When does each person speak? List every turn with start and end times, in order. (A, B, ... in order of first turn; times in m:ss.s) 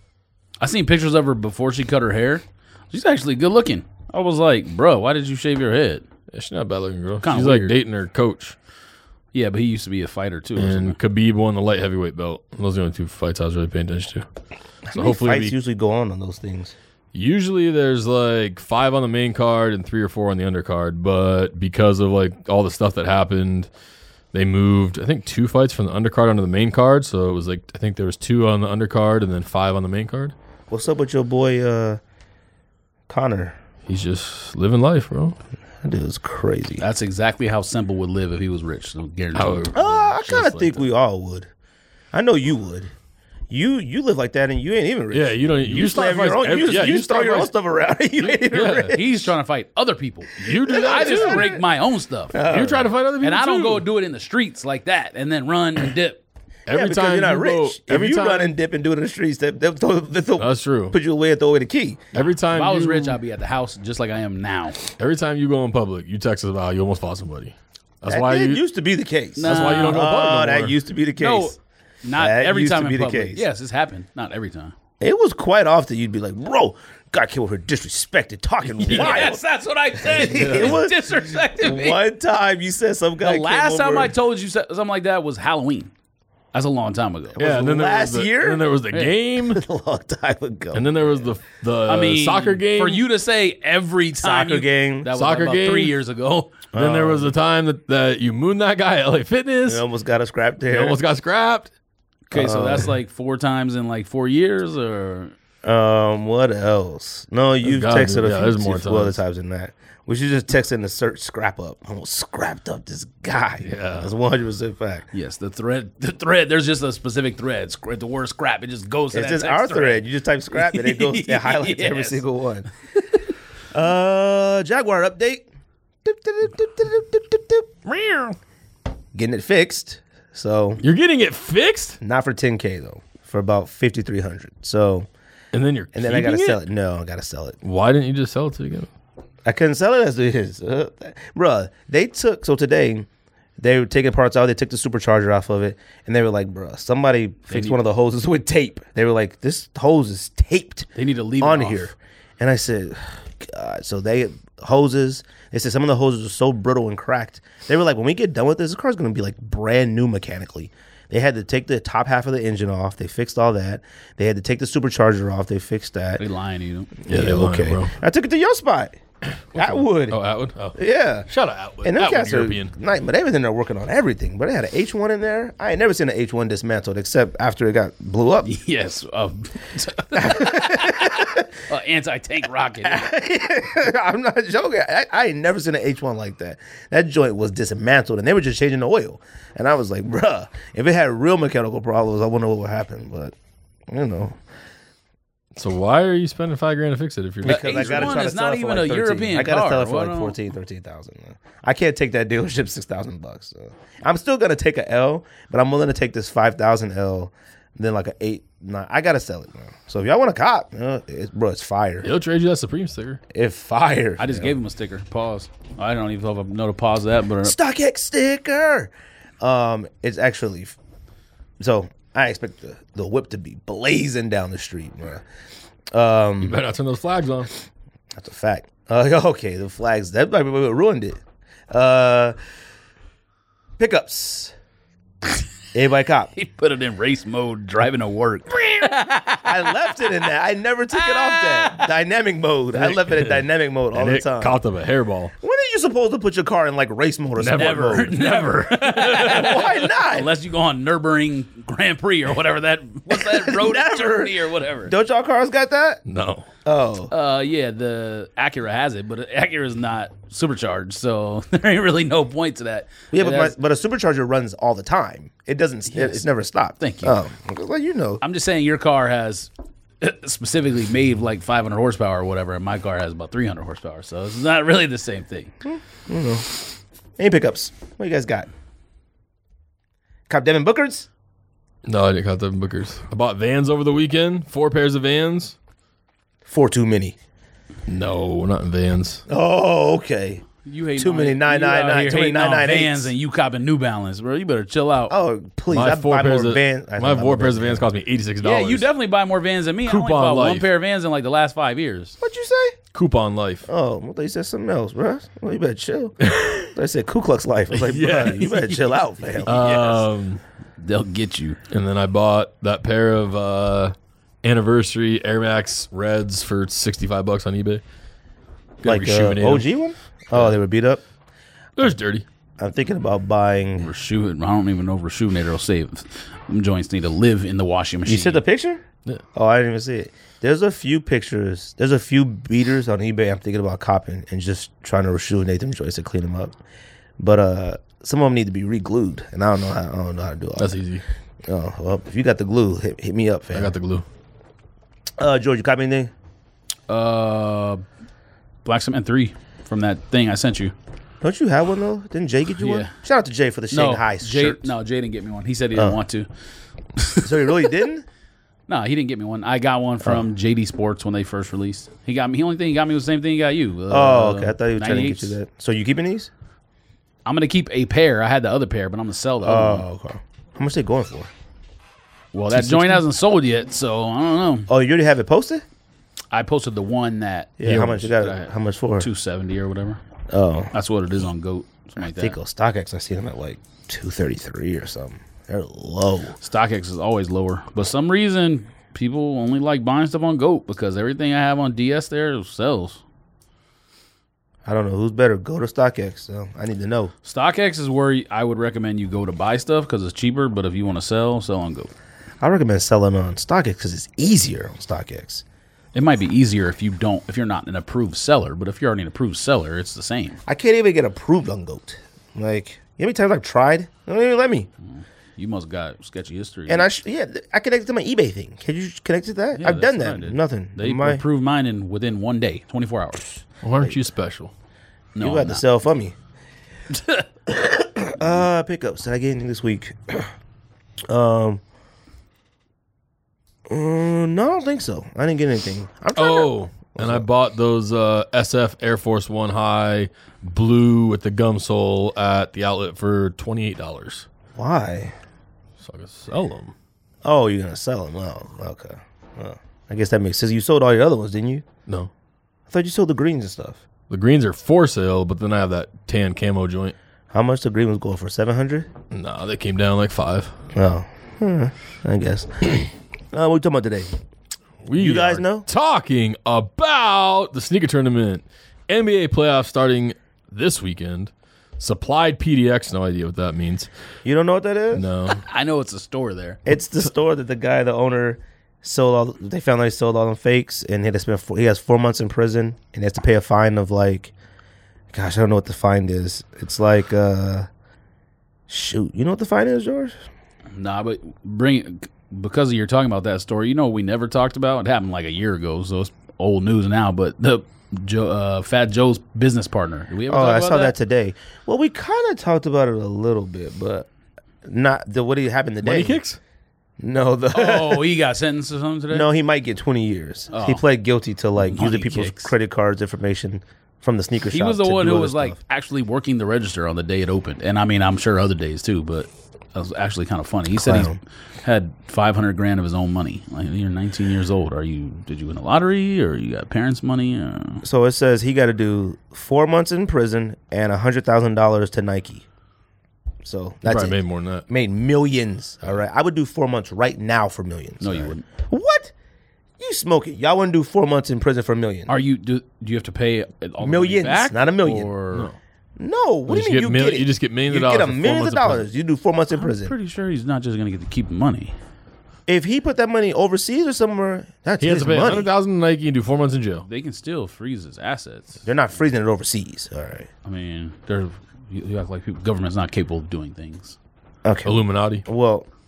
0:00.6-0:06.0 A
0:06.3-0:08.6 B
0:07.2-0:07.7 A
0:09.3-0:11.0 A
0:10.6-0:14.3 B
0:14.8-0:16.7 C
0:14.9-0:15.5 B
0:17.1-0:23.7 B
0:24.3-0:30.3 B
0:30.7-0:32.0 C
0:33.1-0:33.6 C
0:33.9-0:35.4 B
0:35.8-0:36.8 C
0:36.8-0:39.8 A
0:39.3-0:40.9 B
0:39.7-0:41.5 C
0:42.1-0:42.9 C
0:43.5-0:49.3 C
0:45.1-0:47.5 B
0:48.2-0:49.0 B
0:48.9-0:52.4 A
0:50.4-0:51.5 B
0:50.5-0:51.6 C
0:52.3-0:52.9 C
0:52.5-0:53.8 B
0:53.2-0:56.2 A
0:56.7-0:58.6 B
0:56.7-1:02.0 C
1:00.4-1:01.0 B
1:02.1-1:03.2 B
1:02.5-1:04.8 A
1:05.0-1:08.6 B
1:08.0-1:11.6 C
1:09.4-1:10.0 A
1:09.4-1:10.8 B
1:11.2-1:14.7 A
1:12.2-1:13.4 C
1:15.0-1:19.4 C
1:18.8-1:19.3 B
1:18.8-1:22.0 A
1:20.0-1:24.1 C
1:20.2-1:20.8 B
1:23.2-1:25.9 A
1:26.5-1:27.7 A
1:27.4-1:29.6 B
1:27.4-1:28.7 C
1:29.4-1:31.2 C
1:30.7-1:33.0 B
1:31.9-1:36.6 A
1:34.2-1:35.1 C
1:35.1-1:35.9 B
1:36.7-1:37.3 C
1:36.7-1:39.8 B
1:39.6-1:41.0 C
1:40.7-1:41.7 B
1:42.3-1:45.3 A
1:42.3-1:42.9 C
1:45.6-1:55.1 C
1:47.6-1:49.2 B
1:53.6-1:54.1 B
1:55.1-2:02.2 A
1:59.1-2:02.7 C
2:03.7-2:05.4 C
2:06.0-2:07.8 C
2:07.8-2:08.3 B
2:09.1-2:10.8 C
2:10.8-2:12.0 B
2:12.0-2:15.1 C
2:15.5-2:16.6 B
2:15.9-2:17.6 C
2:17.6-2:18.9 B
2:19.4-2:23.1 C
2:23.6-2:30.9 C
2:27.5-2:27.8 A
2:30.9-2:31.9 A
2:31.4-2:46.2 C
2:46.2-2:46.9 A
2:47.0-2:49.0 C
2:47.1-2:47.9 B
2:49.2-2:50.8 B
2:49.5-2:50.2 C
2:50.7-2:51.3 C
2:51.3-2:52.7 B
2:51.8-2:58.5 C
2:58.4-3:03.1 A
3:00.1-3:01.5 C
3:02.8-3:13.3 C
3:13.9-3:14.4 C
3:15.5-3:18.2 B
3:17.4-3:32.1 C
3:17.4-3:20.4 A
3:32.0-3:33.2 B
3:33.3-3:34.5 C
3:34.2-3:37.6 A
3:37.4-3:40.7 C
3:41.6-3:45.2 C
3:45.9-3:46.6 C
3:46.4-3:47.5 B
3:48.2-3:51.2 C
3:51.7-3:52.4 C
3:53.8-3:54.5 C
3:55.7-3:56.3 C
3:56.3-4:00.2 A
3:59.4-4:04.6 C
4:00.9-4:01.9 A
4:02.7-4:05.3 B
4:05.4-4:10.3 C
4:07.4-4:14.9 A
4:13.1-4:16.0 C
4:16.0-4:16.5 B
4:16.6-4:17.1 C
4:17.1-4:23.5 A
4:23.1-4:28.2 C
4:25.9-4:26.2 A
4:26.8-4:27.2 A
4:28.2-4:29.5 A
4:30.0-4:35.5 A
4:35.6-4:36.5 C
4:37.2-4:38.5 C
4:40.3-4:41.1 C
4:41.8-4:45.6 B
4:46.4-4:47.2 C
4:47.9-4:49.2 B
4:49.3-4:53.1 C
4:50.6-4:55.2 A
4:55.1-4:57.9 C
4:55.7-4:58.9 B
4:58.4-5:02.2 A
4:59.8-5:00.7 B
5:02.2-5:02.8 C
5:02.9-5:03.7 B
5:03.7-5:09.5 C
5:06.2-5:06.7 B
5:07.7-5:08.6 B
5:08.0-5:10.0 A
5:09.4-5:10.4 B
5:10.8-5:11.6 A
5:11.7-5:17.8 B
5:18.8-5:19.7 B
5:18.8-5:21.0 C
5:21.8-5:22.2 B
5:22.6-5:23.9 C
5:23.8-5:28.4 A
5:28.0-5:28.8 C
5:29.3-5:36.5 C
5:37.2-5:40.8 C
5:40.6-5:41.0 B
5:41.5-5:43.7 C
5:43.5-5:44.0 B
5:45.2-5:46.1 C
5:46.9-5:47.8 A
5:48.6-5:50.7 A
5:51.2-5:54.7 C
5:52.6-5:52.9 A
5:53.7-5:56.3 A
5:57.0-5:57.7 A
5:57.2-5:58.0 C
5:58.7-6:05.4 A
6:03.9-6:06.3 C
6:07.2-6:09.8 A
6:09.4-6:11.3 C
6:12.3-6:14.7 A
6:12.5-6:13.0 B
6:14.7-6:15.6 C
6:16.3-6:20.0 A
6:17.6-6:19.1 C
6:17.6-6:18.1 B
6:20.3-6:20.7 C
6:20.7-6:22.4 A
6:22.0-6:26.3 C
6:26.4-6:33.0 A
6:34.6-6:37.1 C
6:37.2-6:41.9 A
6:42.4-6:45.4 C
6:45.9-6:50.4 A
6:50.5-6:54.7 C
6:54.9-6:56.9 A
6:56.7-7:01.2 C
6:59.6-7:03.4 A
7:03.6-7:04.5 B
7:05.1-7:05.6 A
7:05.2-7:06.1 C
7:06.9-7:07.6 A
7:07.7-7:10.3 C
7:11.1-7:11.6 C
7:13.7-7:17.2 C
7:16.1-7:24.3 B
7:24.6-7:25.1 C
7:25.8-7:26.7 B
7:27.2-7:31.6 C
7:32.7-7:33.8 C
7:34.1-7:36.9 B
7:37.3-7:38.9 C
7:39.1-7:40.5 B
7:40.7-7:44.1 C
7:44.8-7:53.9 B
7:45.0-7:45.7 C
7:54.2-7:55.0 C
7:54.9-7:55.4 B
7:55.3-7:56.6 A
7:56.6-8:04.3 C
8:05.1-8:07.7 C
8:08.7-8:10.1 C
8:10.7-8:20.9 A
8:20.3-8:24.1 C
8:24.6-8:26.2 C
8:25.8-8:26.4 B
8:27.0-8:28.1 C
8:27.5-8:29.3 A
8:29.1-8:35.6 C
8:30.5-8:30.8 A
8:31.6-8:32.5 A
8:34.5-8:47.8 A
8:40.7-8:41.2 C
8:47.8-8:52.4 C
8:53.4-8:59.1 C
8:53.8-8:54.6 B
8:58.0-8:58.4 A
8:59.8-9:02.1 C
9:02.1-9:05.5 A
9:03.8-9:05.1 C
9:06.0-9:09.9 C
9:06.5-9:08.9 B
9:09.5-9:11.7 A
9:12.5-9:15.5 C
9:14.8-9:16.8 B
9:16.8-9:18.6 A
9:18.6-9:20.3 C
9:20.4-9:24.0 A
9:24.4-9:25.6 C
9:24.6-9:25.2 B